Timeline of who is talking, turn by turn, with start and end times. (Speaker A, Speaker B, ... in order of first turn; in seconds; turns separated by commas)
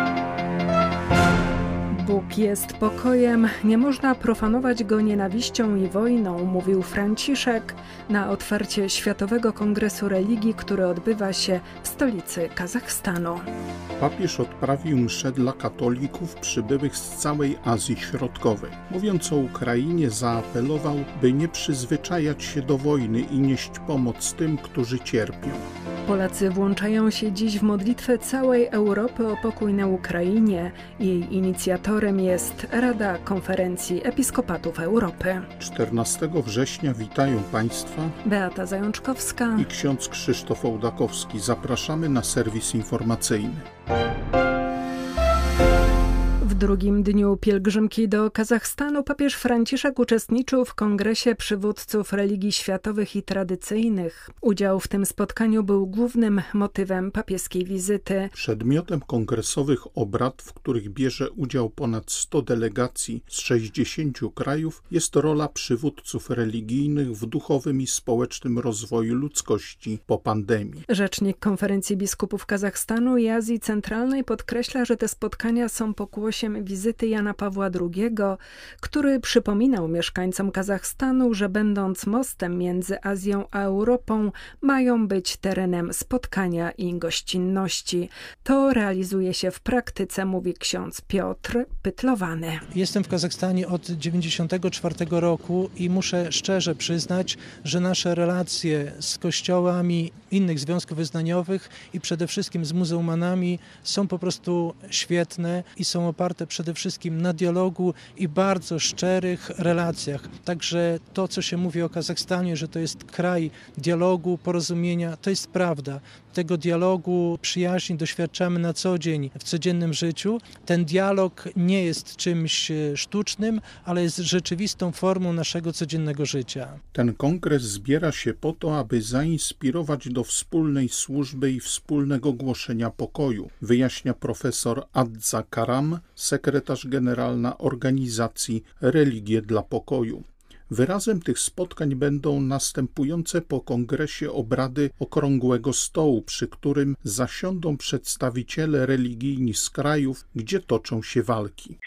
Speaker A: 1.9-13.4, Speaker B: 14.0-25.6, Speaker A: 26.1-35.5, Speaker B: 35.6-38.1, Speaker A: 38.2-39.7, Speaker B: 39.5-43.6, Speaker A: 46.4-58.3, Speaker B: 58.3-70.8, Speaker A: 70.9-92.6, Speaker C: 92.7-126.8, Speaker B: 126.9-151.8